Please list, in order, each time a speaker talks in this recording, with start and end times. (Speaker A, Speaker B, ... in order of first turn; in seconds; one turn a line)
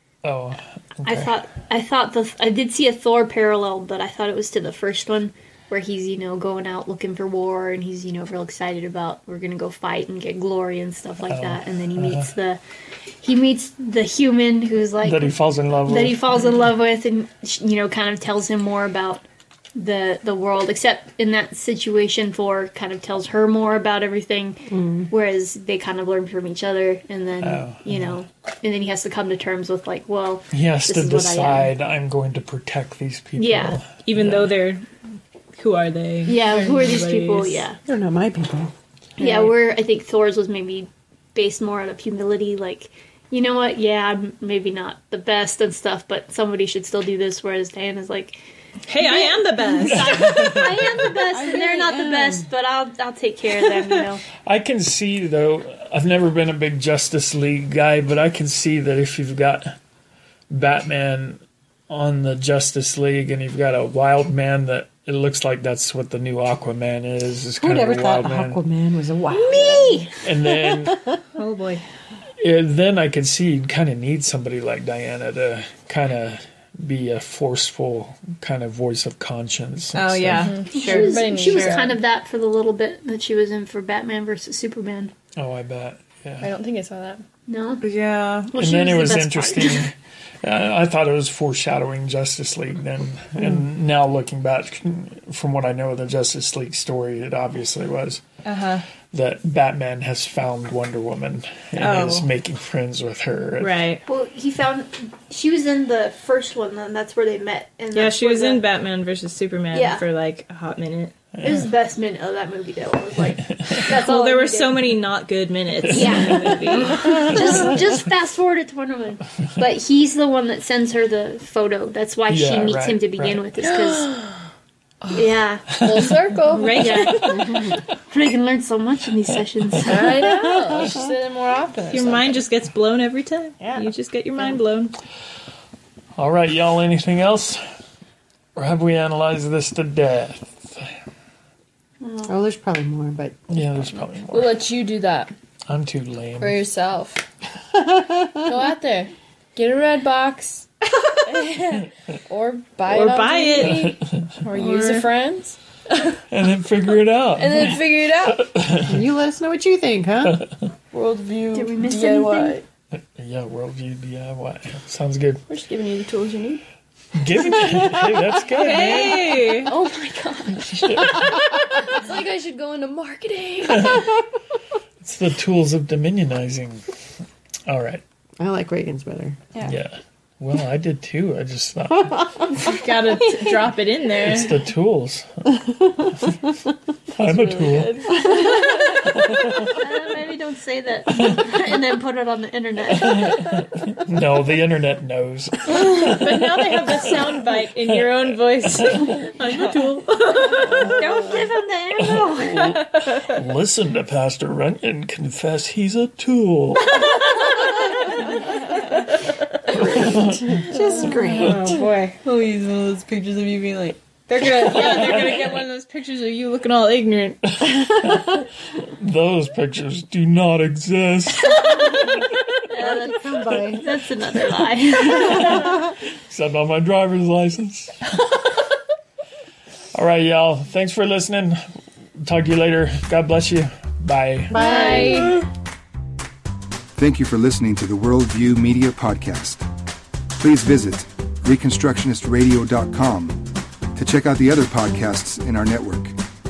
Speaker A: 0.2-1.3
Speaker B: 1.0-12.6
Speaker A: 11.3-12.3
Speaker B: 13.2-15.3
Speaker A: 15.0-16.6
Speaker B: 15.9-19.2
Speaker B: 19.7-31.7
Speaker C: 24.7-25.1
Speaker A: 27.4-28.2
Speaker A: 30.5-34.6
Speaker B: 33.4-33.8
Speaker D: 34.0-34.9
Speaker D: 35.5-37.7
Speaker B: 36.2-37.8
Speaker C: 37.8-39.3
Speaker B: 39.2-48.4
Speaker D: 48.9-50.4
Speaker B: 49.0-54.2
Speaker A: 49.9-50.9
Speaker C: 51.2-52.5
Speaker A: 54.4-59.7
Speaker A: 60.5-68.6
Speaker C: 67.6-71.2
Speaker D: 69.3-69.6
Speaker A: 70.2-71.0
Speaker D: 71.3-71.8
Speaker A: 72.4-80.5
Speaker D: 79.9-81.9
Speaker E: 80.4-82.0
Speaker B: 80.7-85.1
Speaker A: 85.3-86.5
Speaker E: 86.4-87.2
Speaker B: 87.5-87.8
Speaker D: 87.8-88.5
Speaker B: 88.5-89.9
Speaker A: 88.5-98.2
Speaker D: 98.4-98.8
Speaker A: 99.1-103.8
Speaker D: 101.8-102.3
Speaker D: 103.6-104.0
Speaker B: 104.1-108.6
Speaker D: 107.9-111.2
Speaker B: 109.7-110.0
Speaker B: 111.4-114.9
Speaker A: 113.4-113.8
Speaker D: 113.9-117.5
Speaker B: 115.9-124.1
Speaker A: 122.3-123.4
Speaker E: 123.6-124.4
Speaker E: 125.0-127.2
Speaker B: 125.1-126.0
Speaker A: 125.7-126.1
Speaker D: 126.5-127.5
Speaker B: 126.7-130.2
Speaker A: 127.1-127.8
Speaker E: 129.8-132.4
Speaker D: 131.9-134.9
Speaker E: 133.6-133.9
Speaker A: 136.2-137.6
Speaker A: 138.6-140.9
Speaker B: 142.0-142.3
Speaker C: 142.2-143.5
Speaker A: 143.5-144.6
Speaker E: 144.2-145.3
Speaker A: 145.7-146.6
Speaker E: 146.4-147.2
Speaker C: 147.8-148.3
Speaker E: 148.4-156.1
Speaker D: 152.8-155.1
Speaker A: 153.6-154.3
Speaker A: 156.3-159.0
Speaker E: 157.4-158.5
Speaker C: 158.8-160.4
Speaker E: 160.9-162.6
Speaker B: 161.5-162.6
Speaker A: 163.2-165.4
Speaker E: 165.5-166.6
Speaker A: 167.1-169.6
Speaker D: 168.5-169.7
Speaker E: 169.6-174.1
Speaker A: 175.0-176.8
Speaker A: 177.7-178.0
Speaker C: 178.4-179.4
Speaker A: 179.6-182.7
Speaker D: 182.5-184.6
Speaker A: 184.2-185.3
Speaker C: 185.6-186.2
Speaker A: 187.1-188.3
Speaker E: 187.1-189.3
Speaker A: 189.2-189.7
Speaker B: 189.7-193.6
Speaker A: 192.9-198.2
Speaker D: 195.6-201.0
Speaker A: 198.8-199.1
Speaker B: 200.9-202.7
Speaker A: 202.0-207.1
Speaker D: 202.6-203.2
Speaker C: 209.7-211.8
Speaker A: 209.8-210.7
Speaker D: 210.9-212.7
Speaker E: 212.2-213.9
Speaker D: 213.3-217.4
Speaker A: 214.9-215.3
Speaker A: 217.6-221.8
Speaker B: 221.5-222.1
Speaker B: 222.7-225.9
Speaker C: 222.7-224.0
Speaker C: 225.3-225.6
Speaker A: 226.2-228.1
Speaker A: 229.9-231.6
Speaker A: 232.2-234.6
Speaker C: 234.5-235.3
Speaker E: 234.5-235.4
Speaker B: 234.5-235.3
Speaker F: 236.9-239.6
Speaker F: 240.4-243.4
Speaker F: 243.9-246.1